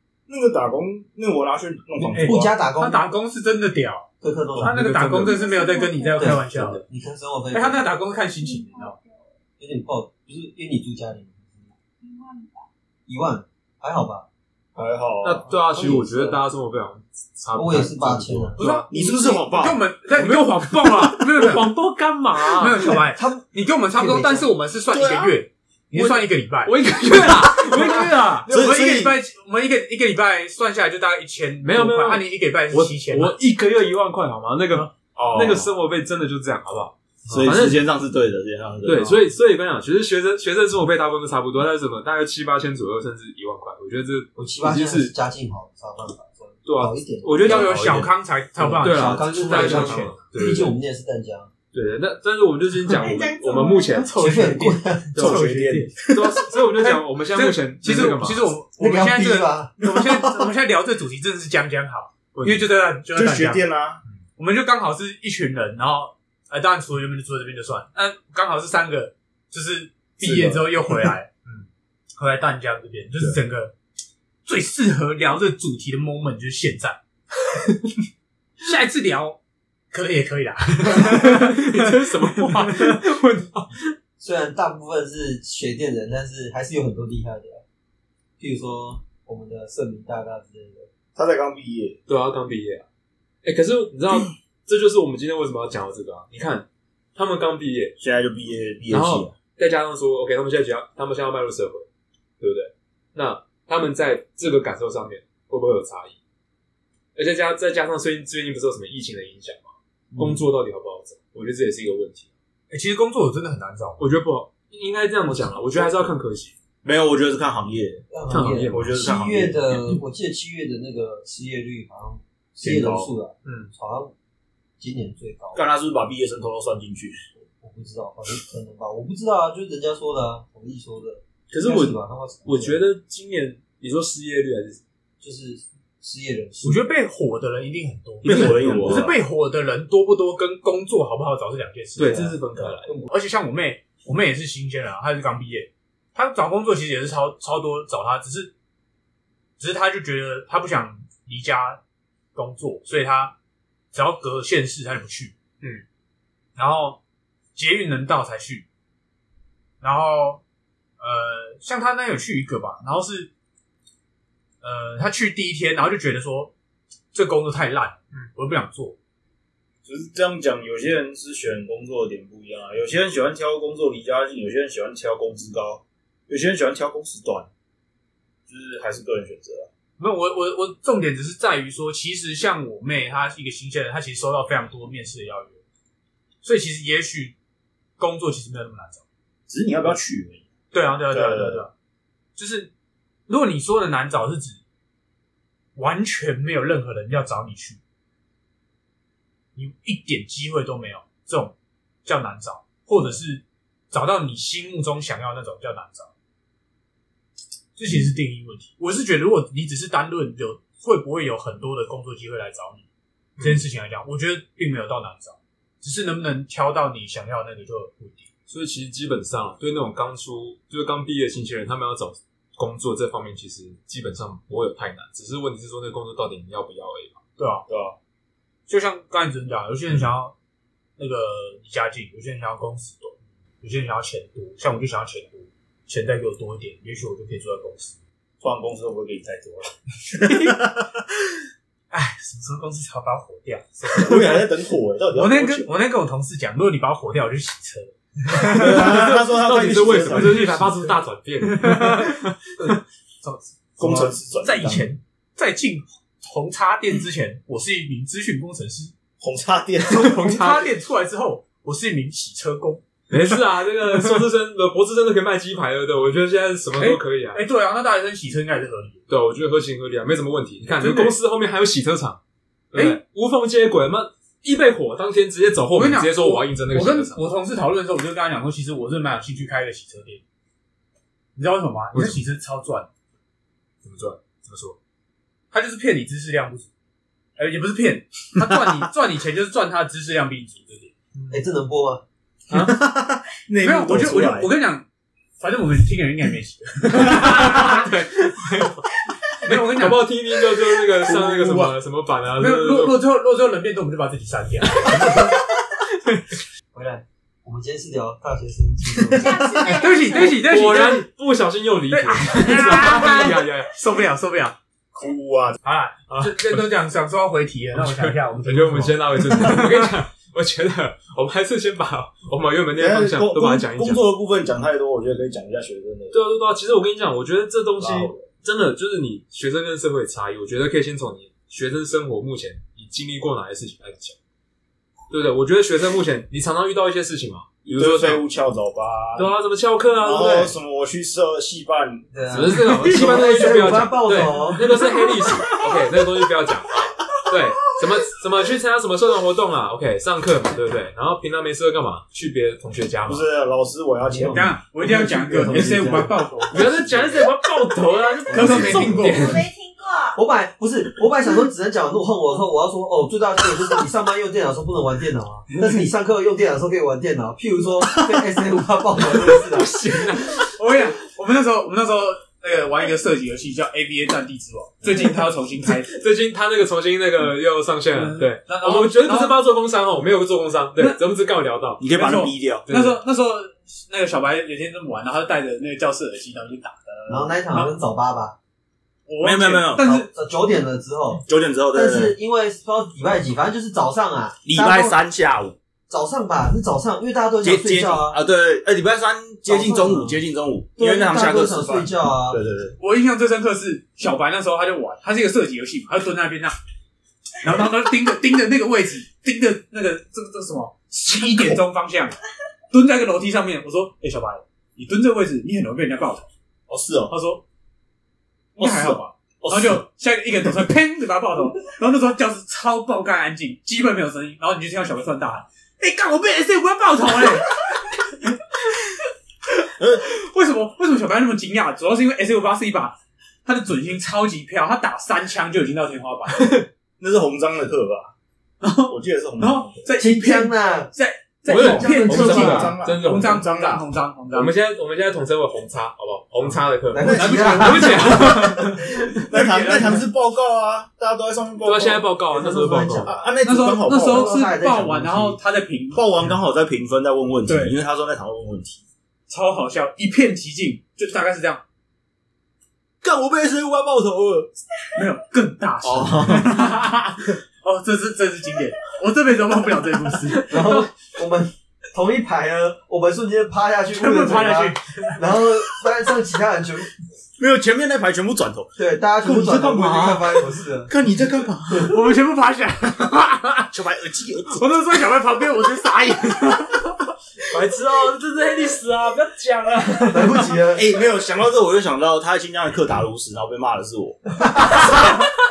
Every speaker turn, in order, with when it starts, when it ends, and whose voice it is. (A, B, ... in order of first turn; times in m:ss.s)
0:00.3-0:02.5 A
0:02.0-0:03.0 B
0:02.2-0:06.8 C
0:04.2-0:04.8 B
0:04.6-0:05.4 D
0:05.2-0:06.3 E
0:06.2-0:07.9 B
0:06.3-0:06.8 D
0:07.5-0:09.0 C
0:08.4-0:09.3 E
0:09.6-0:11.7 B
0:12.0-0:12.7 E
0:13.1-0:14.2 B
0:14.8-0:15.5 A
0:15.2-0:18.9 D
0:15.7-0:16.4 B
0:17.5-0:18.6 B
0:18.6-0:21.7 C
0:18.9-0:19.8 A
0:20.2-0:22.9 D
0:22.6-0:33.4 C
0:23.1-0:24.5 B
0:24.9-0:25.4 A
0:25.9-0:28.4 D
0:28.5-0:29.2 A
0:31.6-0:37.8 D
0:35.2-0:35.7 A
0:37.3-0:37.5 B
0:37.3-0:39.3 A
0:38.8-0:45.1 D
0:44.4-0:47.7 B
0:46.6-0:48.1 D
0:47.4-0:50.2 C
0:47.5-0:48.1 A
0:48.6-0:51.5 B
0:48.8-0:50.8 D
0:51.7-0:54.1 D
0:53.0-0:54.1 E
0:54.0-0:56.0 C
0:54.2-0:55.2 B
0:55.2-0:56.2 A
0:55.2-0:58.5 D
0:56.8-1:03.6 C
0:58.8-0:59.7 B
0:59.8-1:00.5 A
1:02.3-1:02.7 D
1:03.1-1:04.0 A
1:04.4-1:11.3 C
1:10.2-1:10.6 D
1:12.2-1:13.7 C
1:14.5-1:17.0 C
1:18.6-1:19.4 C
1:19.9-1:23.0 C
1:20.9-1:23.9 D
1:24.2-1:27.6 B
1:28.4-1:30.9 B
1:31.2-1:32.0 A
1:32.1-1:32.8 D
1:33.4-1:38.0 D
1:38.0-1:39.3 A
1:38.9-1:41.9 D
1:42.4-1:46.2 D
1:47.2-1:52.3 D
1:52.7-1:54.0 C
1:54.0-1:56.5 D
1:55.2-1:56.1 B
1:56.8-1:58.0 A
1:58.1-2:04.1 B
1:58.3-1:59.0 D
1:58.7-1:59.8 A
2:02.6-2:03.1 A
2:03.4-2:03.7 D
2:04.8-2:05.7 B
2:05.5-2:07.2 A
2:07.6-2:12.8 B
2:11.5-2:14.8 D
2:15.2-2:16.8 B
2:16.6-2:22.4 C
2:18.2-2:19.1 A
2:18.2-2:19.1 D
2:22.0-2:22.9 D
2:23.1-2:28.5 C
2:29.6-2:31.8 C
2:32.4-2:33.4 C
2:33.9-2:35.3 C
2:36.6-2:37.0 C
2:37.6-2:38.6 C
2:39.8-2:40.4 C
2:41.0-2:43.3 C
2:44.6-2:46.5 C
2:47.1-2:49.0 C
2:49.8-2:57.5 A
2:58.5-2:59.7 A
3:00.0-3:05.6 C
3:06.4-3:07.4 C
3:08.0-3:09.0 C
3:09.5-3:10.4 A
3:10.7-3:11.7 C
3:11.1-3:11.7 A
3:12.4-3:12.7 C
3:13.3-3:14.6 C
3:15.8-3:17.8 C
3:19.6-3:26.1 C
3:27.8-3:32.8 C
3:33.4-3:38.3 C
3:38.5-3:47.2 D
3:47.4-3:47.7 C
3:47.7-3:48.0 A
3:48.7-3:50.3 C
3:51.0-3:58.0 C
3:58.4-4:01.1 A
4:00.2-4:00.6 C
4:01.9-4:04.4 C
4:03.9-4:05.7 A
4:05.2-4:08.9 C
4:08.3-4:10.7 A
4:08.5-4:12.7 D
4:10.1-4:18.9 C
4:13.8-4:14.9 A
4:19.2-4:20.2 A
4:19.9-4:24.2 C
4:20.0-4:20.7 D
4:23.1-4:27.4 D
4:26.8-4:29.0 C
4:29.1-4:32.2 D
4:30.8-4:31.2 C
4:32.7-4:37.2 D
4:32.7-4:33.0 C
4:35.7-4:40.2 C
4:41.4-4:42.9 C
4:41.9-4:42.2 D
4:43.8-4:44.8 D
4:45.5-4:46.7 C
4:47.4-4:50.9 C
4:51.2-4:51.4 D
4:51.3-4:52.0 B
4:52.5-4:54.5 A
4:53.6-4:54.8 C
4:55.4-4:57.9 C
4:56.9-5:03.0 D
4:59.4-5:00.1 C
5:01.0-5:01.7 C
5:02.4-5:05.4 C
5:06.7-5:09.6 B
5:09.2-5:10.5 E
5:09.6-5:11.1 C
5:10.1-5:13.7 D
5:11.9-5:14.6 C
5:15.0-5:15.6 A
5:15.6-5:19.9 C
5:17.7-5:24.0 D
5:22.8-5:26.2 A
5:26.1-5:34.2 D
5:27.8-5:28.2 A
5:35.1-5:38.2 D
5:37.8-5:39.3 A
5:39.2-5:40.6 D
5:40.0-5:42.1 A
5:42.1-5:44.8 B
5:42.3-5:53.3 D
5:42.6-5:43.3 C
5:44.7-5:45.4 C
5:53.1-5:54.5 A
5:54.0-5:56.2 B
5:54.3-5:56.9 C
5:56.5-5:59.4 D
5:58.3-5:58.8 B
5:58.3-5:59.4 C
5:58.6-6:00.2 E
6:00.2-6:09.8 B
6:09.5-6:10.4 D
6:10.2-6:16.0 C
6:15.9-6:21.8 D
6:17.9-6:19.4 C
6:21.8-6:22.6 A
6:21.9-6:27.7 C
6:22.7-6:23.0 D
6:27.1-6:28.4 B
6:29.1-6:30.1 C
6:29.2-6:29.9 A
6:29.8-6:35.0 B
6:31.3-6:32.1 A
6:34.4-6:35.6 A
6:35.9-6:38.2 B
6:37.4-6:42.8 A
6:39.5-6:40.2 B
6:40.8-6:42.4 B
6:42.8-6:46.6 C
6:47.4-6:52.2 C
6:52.7-6:56.3 C
6:56.7-6:57.1 A
6:57.1-6:57.4 C
6:58.6-6:59.8 A
6:58.6-7:07.6 C
7:09.8-7:10.1 A
7:10.0-7:16.6 C
7:17.0-7:18.1 A
7:18.6-7:24.5 C
7:18.9-7:19.8 A
7:20.0-7:20.9 B
7:21.5-7:23.5 D
7:21.5-7:23.8 A
7:21.6-7:22.7 B
7:24.3-7:28.9 D
7:26.9-7:28.6 B
7:27.0-7:28.7 C
7:29.3-7:32.1 A
7:29.3-7:30.0 C
7:31.6-7:33.2 D
7:32.3-7:33.3 B
7:33.0-7:34.4 A
7:33.4-7:36.4 C
7:34.0-7:35.4 B
7:36.0-7:38.8 A
7:37.4-7:37.8 C
7:39.3-7:41.6 C
7:43.0-7:44.5 A
7:45.0-7:50.5 C
7:45.8-7:46.7 A
7:50.3-7:50.9 D
7:50.5-7:56.9 B
7:53.9-7:55.2 C
7:57.4-8:02.0 A
7:58.8-8:00.9 B
8:01.8-8:03.7 C
8:03.7-8:04.6 A
8:04.5-8:06.9 C
8:07.5-8:10.6 D
8:10.1-8:10.9 B
8:10.7-8:15.1 A
8:14.4-8:15.1 B